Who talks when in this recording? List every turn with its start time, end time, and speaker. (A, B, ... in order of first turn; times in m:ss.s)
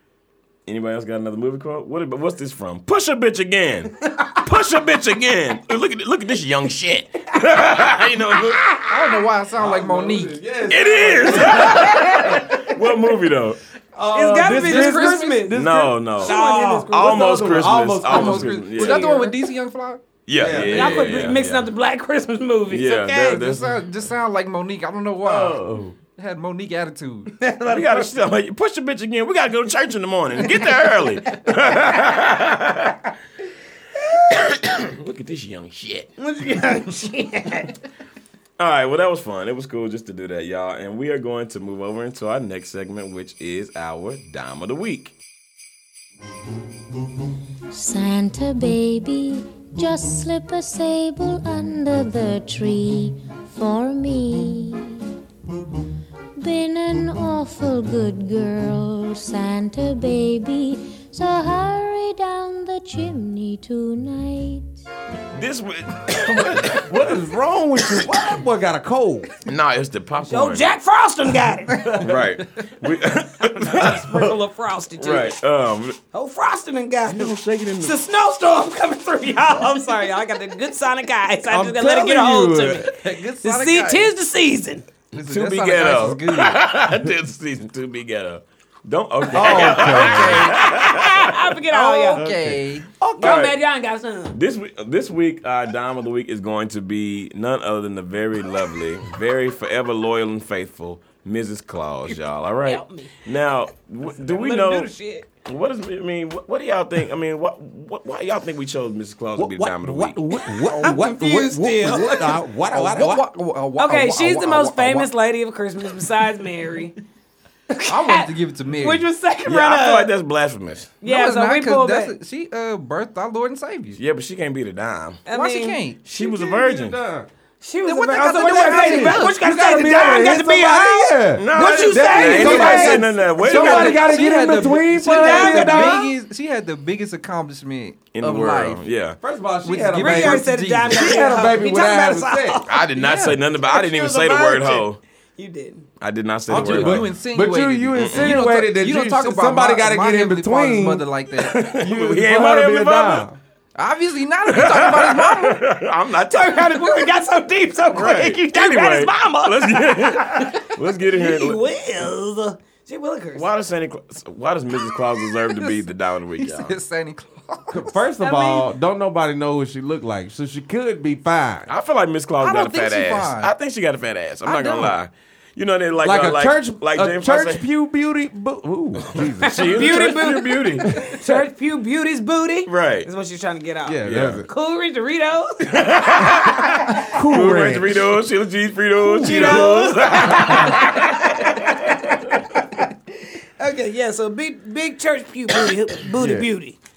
0:00.7-0:08.9 A
0:08.9-0:10.4 B
0:09.6-0:12.5 C
0:10.7-0:13.6 A
0:11.6-0:12.5 D
0:14.0-0:18.7 C
0:14.1-0:15.6 D
0:14.7-0:19.1 A
0:16.2-0:17.3 D
0:18.0-0:20.0 B
0:18.8-0:19.4 D
0:20.3-0:21.7 A
0:20.4-0:21.2 C
0:20.5-0:21.1 B
0:20.6-0:23.4 D
0:22.7-0:23.8 A
0:23.3-0:27.3 B
0:25.2-0:26.0 C
0:27.4-0:28.1 D
0:27.7-0:33.1 A
0:34.3-0:36.1 A
0:36.2-0:37.8 D
0:38.6-0:45.2 A
0:47.7-0:55.1 E
0:56.4-1:04.8 E
1:05.3-1:07.0 A
1:06.3-1:09.3 C
1:09.4-1:10.8 A
1:10.3-1:12.1 D
1:12.0-1:14.3 A
1:13.6-1:15.4 D
1:15.0-1:16.0 A
1:16.1-1:24.9 D
1:17.1-1:18.0 A
1:21.5-1:22.9 C
1:22.9-1:24.1 B
1:25.1-1:26.6 B
1:25.1-1:31.3 A
1:29.3-1:32.3 D
1:29.3-1:30.6 C
1:31.7-1:32.9 B
1:32.2-1:33.4 C
1:33.1-1:33.6 A
1:33.2-1:34.4 D
1:34.3-1:44.9 A
1:42.6-1:43.1 D
1:44.1-1:45.3 D
1:45.4-1:50.2 A
1:49.4-1:53.3 C
1:50.4-1:52.4 D
1:52.7-1:55.1 B
1:53.8-1:56.9 D
1:57.7-1:58.3 D
1:57.9-1:59.0 B
1:58.8-2:00.1 D
1:59.5-2:00.9 A
2:01.0-2:02.1 D
2:01.0-2:04.0 B
2:04.0-2:05.2 A
2:05.3-2:05.8 D
2:05.3-2:06.0 B
2:06.1-2:07.0 A
2:06.1-2:07.3 C
2:07.6-2:14.0 D
2:07.8-2:09.4 B
2:08.5-2:16.0 C
2:11.4-2:14.0 A
2:12.4-2:12.9 B
2:13.4-2:18.8 B
2:15.0-2:16.1 D
2:18.1-2:19.2 A
2:19.2-2:22.6 C
2:19.6-2:21.2 B
2:20.0-2:22.9 D
2:22.7-2:25.0 A
2:23.0-2:23.4 B
2:23.7-2:24.8 C
2:23.7-2:24.9 D
2:25.4-2:25.9 D
2:26.0-2:27.0 A
2:26.5-2:31.1 C
2:26.5-2:31.6 B
2:27.9-2:28.3 A
2:31.4-2:33.3 A
2:31.7-2:33.4 C
2:33.8-2:35.6 B
2:34.5-2:37.1 A
2:36.3-2:43.5 D
2:37.9-2:41.6 A
2:43.4-2:46.8 A
2:46.4-2:48.0 B
2:47.7-2:51.7 C
2:48.2-2:48.7 D
2:51.7-2:57.6 A
2:52.4-2:53.5 B
2:54.4-2:55.0 B
2:56.0-3:00.1 C
2:59.0-3:01.1 A
2:59.5-3:06.7 D
3:00.8-3:01.2 C
3:02.7-3:03.1 A
3:03.9-3:04.5 C
3:04.0-3:04.4 A
3:05.7-3:12.4 A
3:07.1-3:08.1 C
3:09.0-3:12.9 D
3:09.3-3:09.6 C
3:13.6-3:16.8 D
3:16.2-3:16.5 C